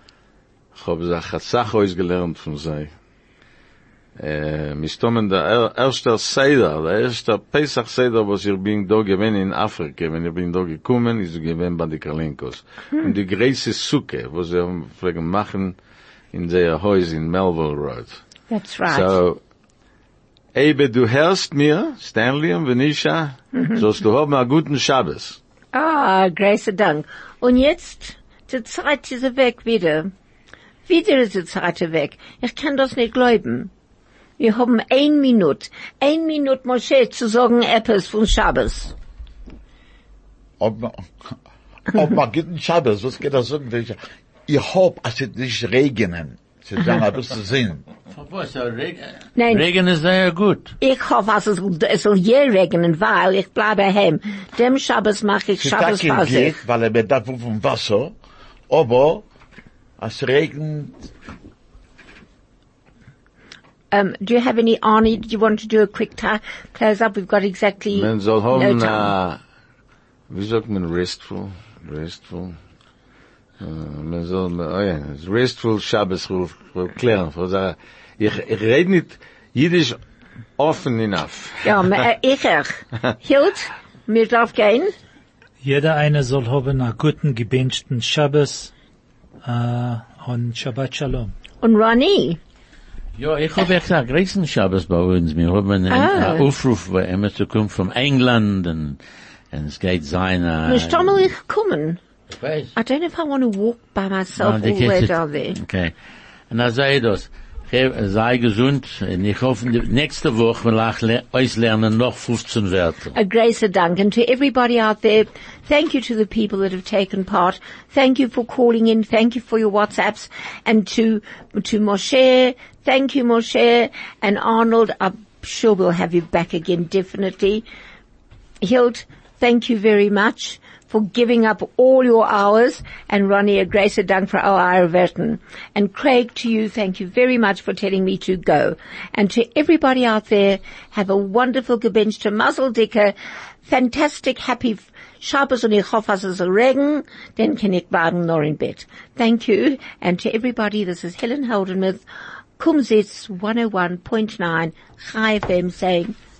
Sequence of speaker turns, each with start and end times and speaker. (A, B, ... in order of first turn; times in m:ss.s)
0:00.8-0:02.9 A
0:04.2-0:15.8 A
0:16.3-0:18.2 A
0:18.5-0:19.2 B
0:18.9-0:19.4 A
0:20.6-0:25.4 A
0:25.7-0:30.1 B
0:30.9-0:33.7 B
0:34.4-0:38.9 B
0:40.6-0:41.3 C
0:41.9-0:47.8 C
0:48.1-0:50.8 D
0:49.4-0:49.7 B
0:50.8-0:56.6 B
0:55.6-0:58.1 C
0:58.7-0:59.2 C
1:00.0-1:01.0 C
1:03.9-1:09.1 B
1:07.9-1:09.4 A
1:10.3-1:12.6 A
1:13.6-1:20.0 A
1:20.6-1:21.8 A
1:21.6-1:24.9 B
1:25.6-1:28.7 E
1:29.4-1:31.3 E
1:31.6-1:32.4 B
1:33.2-1:39.0 D
1:35.9-1:36.5 B
1:39.5-1:41.2 D
1:40.7-1:42.0 B
1:42.3-1:42.7 D
1:42.8-1:45.6 B
1:44.4-1:45.9 D
1:46.5-1:53.2 D
1:53.1-2:07.7 B
2:08.6-2:23.2 B
2:23.7-2:32.0 B
2:32.6-2:36.2 B